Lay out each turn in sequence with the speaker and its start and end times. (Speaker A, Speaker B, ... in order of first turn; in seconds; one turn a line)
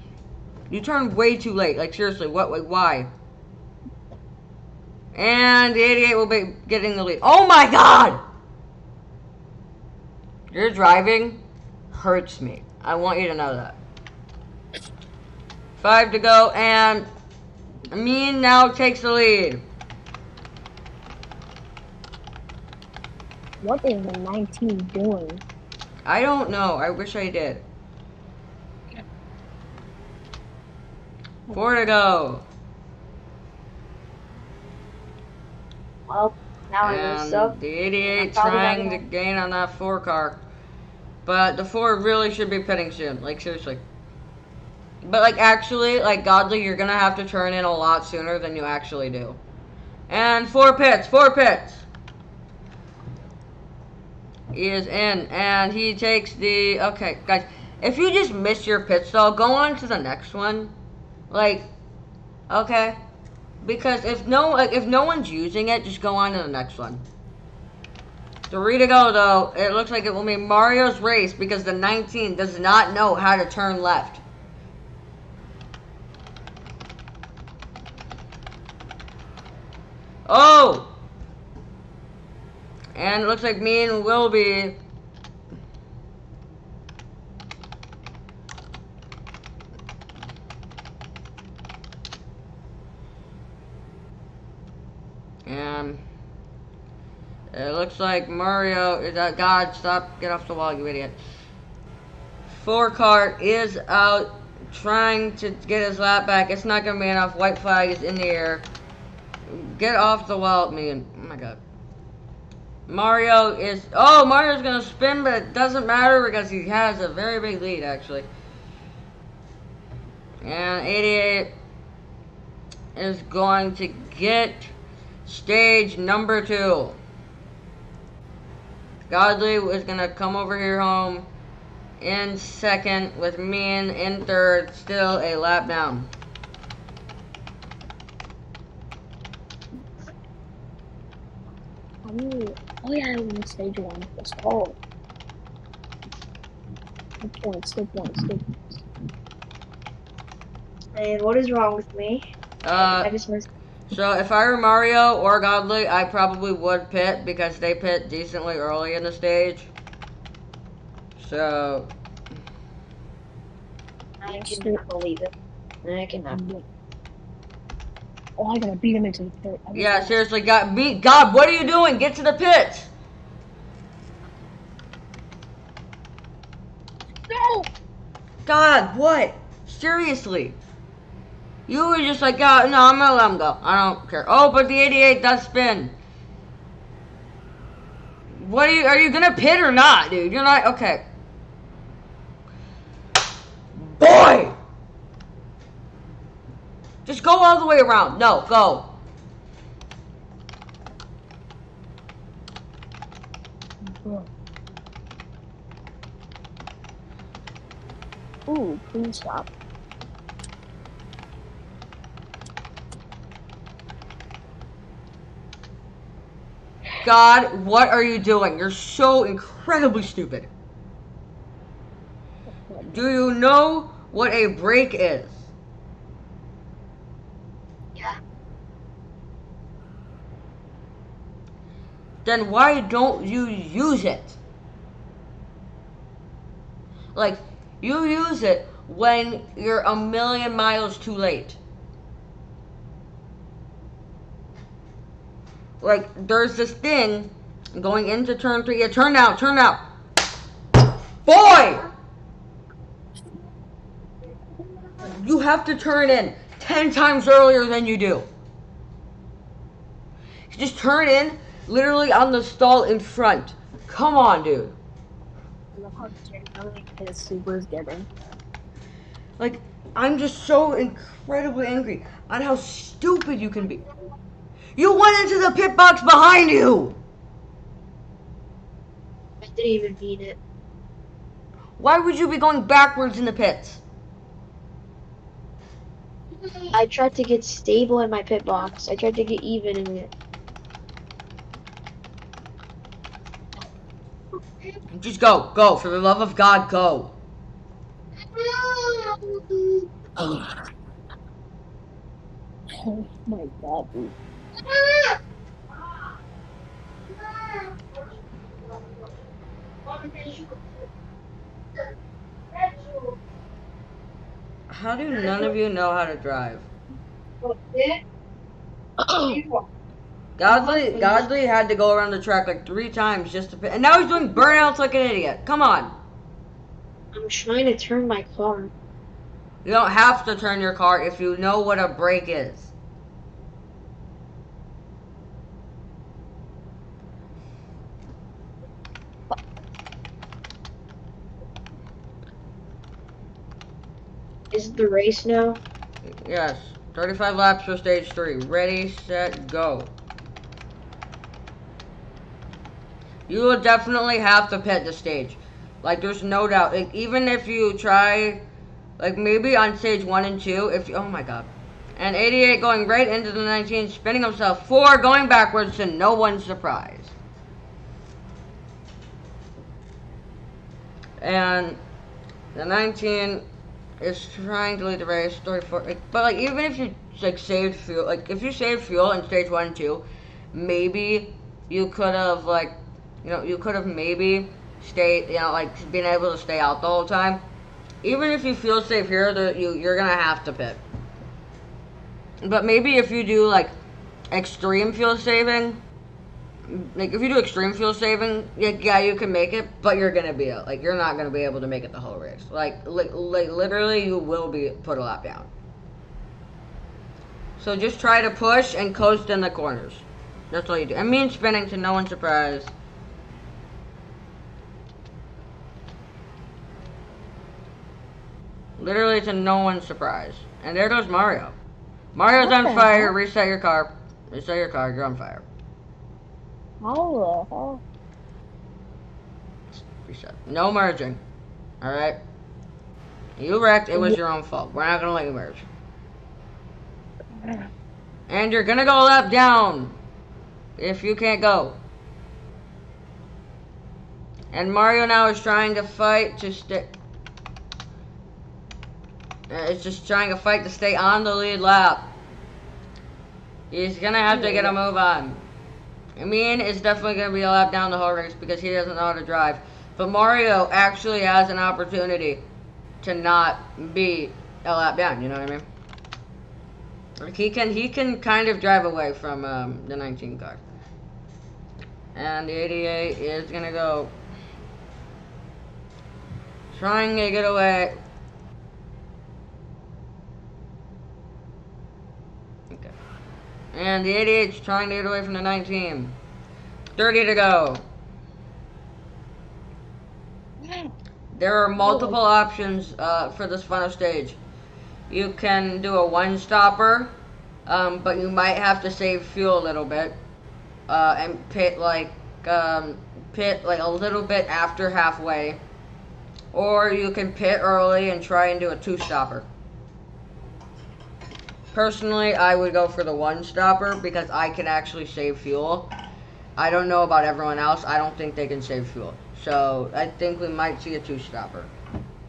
Speaker A: 0.7-3.1
Speaker A: 5.1-8.2
Speaker A: 10.5-11.4
Speaker A: 11.9-13.8
Speaker A: 15.8-17.1
Speaker A: 17.9-19.7
Speaker B: 23.6-25.4
Speaker A: 26.1-27.6
Speaker A: 31.5-32.5
Speaker C: 36.1-37.6
Speaker A: 36.8-40.4
Speaker C: 38.1-39.0
Speaker A: 41.2-43.8
Speaker A: 45.0-49.4
Speaker A: 50.1-51.9
Speaker A: 54.5-60.7
Speaker A: 61.3-61.7
Speaker A: 62.5-63.0
Speaker A: 63.6-67.0
Speaker A: 68.5-74.2
Speaker A: 80.3-80.9
Speaker A: 83.0-84.8
Speaker A: 95.5-96.0
Speaker A: 97.5-101.2
Speaker A: 102.5-108.7
Speaker A: 109.5-111.6
Speaker A: 112.9-118.3
Speaker A: 120.4-121.5
Speaker A: 123.0-124.7
Speaker A: 125.2-127.0
Speaker A: 129.1-131.3
Speaker A: 132.0-136.1
Speaker B: 142.1-144.8
Speaker B: 147.2-148.8
Speaker C: 150.9-153.5
Speaker A: 152.6-153.1
Speaker A: 153.9-159.7
Speaker A: 161.2-161.9
Speaker C: 164.2-165.3
Speaker B: 164.4-164.8
Speaker C: 165.8-166.4
Speaker B: 166.3-166.7
Speaker B: 168.4-170.2
Speaker A: 169.7-172.9
Speaker B: 177.3-177.7
Speaker A: 178.5-180.6
Speaker A: 181.7-185.9
Speaker A: 188.4-191.1
Speaker A: 193.8-194.6
Speaker A: 197.1-198.9
Speaker B: 203.8-204.3
Speaker B: 208.5-209.5
Speaker A: 217.0-220.5
Speaker A: 222.8-225.4
Speaker A: 232.2-234.4
Speaker A: 237.2-241.6
Speaker A: 245.8-249.8
Speaker A: 251.2-251.9
Speaker A: 255.0-258.3
Speaker A: 260.5-264.8
Speaker B: 265.7-268.1
Speaker A: 269.4-273.8
Speaker A: 274.8-277.0
Speaker C: 279.4-280.4
Speaker A: 281.8-283.8
Speaker C: 286.7-290.1
Speaker A: 294.9-297.1
Speaker C: 298.3-299.8
Speaker B: 302.7-304.1
Speaker C: 304.7-305.2
Speaker C: 307.1-308.0
Speaker C: 308.7-308.9
Speaker C: 309.9-310.6
Speaker C: 312.5-313.2
Speaker A: 314.7-316.7
Speaker C: 315.1-315.5
Speaker C: 317.4-318.0
Speaker B: 319.0-319.4
Speaker C: 319.2-319.7
Speaker A: 320.4-326.0
Speaker C: 320.5-321.3
Speaker C: 327.1-328.7
Speaker A: 329.6-332.7
Speaker C: 344.5-345.6
Speaker A: 346.0-349.9
Speaker A: 353.3-358.4
Speaker A: 359.0-367.2
Speaker A: 371.2-371.8
Speaker A: 372.6-373.4
Speaker A: 374.0-387.4
Speaker A: 388.0-390.8
Speaker A: 392.4-393.8
Speaker A: 394.3-395.8
Speaker A: 396.7-405.5
Speaker A: 407.6-412.7
Speaker A: 418.8-421.6
Speaker A: 422.1-425.5
Speaker B: 422.4-423.1
Speaker B: 426.8-427.8
Speaker A: 429.7-431.2
Speaker A: 431.8-432.2
Speaker A: 433.4-435.7
Speaker B: 433.9-434.2
Speaker B: 437.4-437.7
Speaker A: 438.3-440.0
Speaker A: 440.8-441.8
Speaker A: 444.5-446.9
Speaker A: 449.5-452.1
Speaker A: 453.7-455.4
Speaker B: 454.3-454.8
Speaker A: 456.2-462.4
Speaker A: 463.0-465.7
Speaker A: 467.2-470.6
Speaker A: 472.1-474.1
Speaker A: 476.7-478.0
Speaker A: 482.7-483.0
Speaker A: 483.7-486.2
Speaker A: 487.0-487.9
Speaker B: 490.6-490.9
Speaker A: 491.3-494.4
Speaker B: 491.8-492.2
Speaker A: 495.1-497.1
Speaker A: 497.7-500.2
Speaker A: 500.9-505.6
Speaker A: 506.5-509.5
Speaker A: 511.7-515.9
Speaker A: 516.6-521.7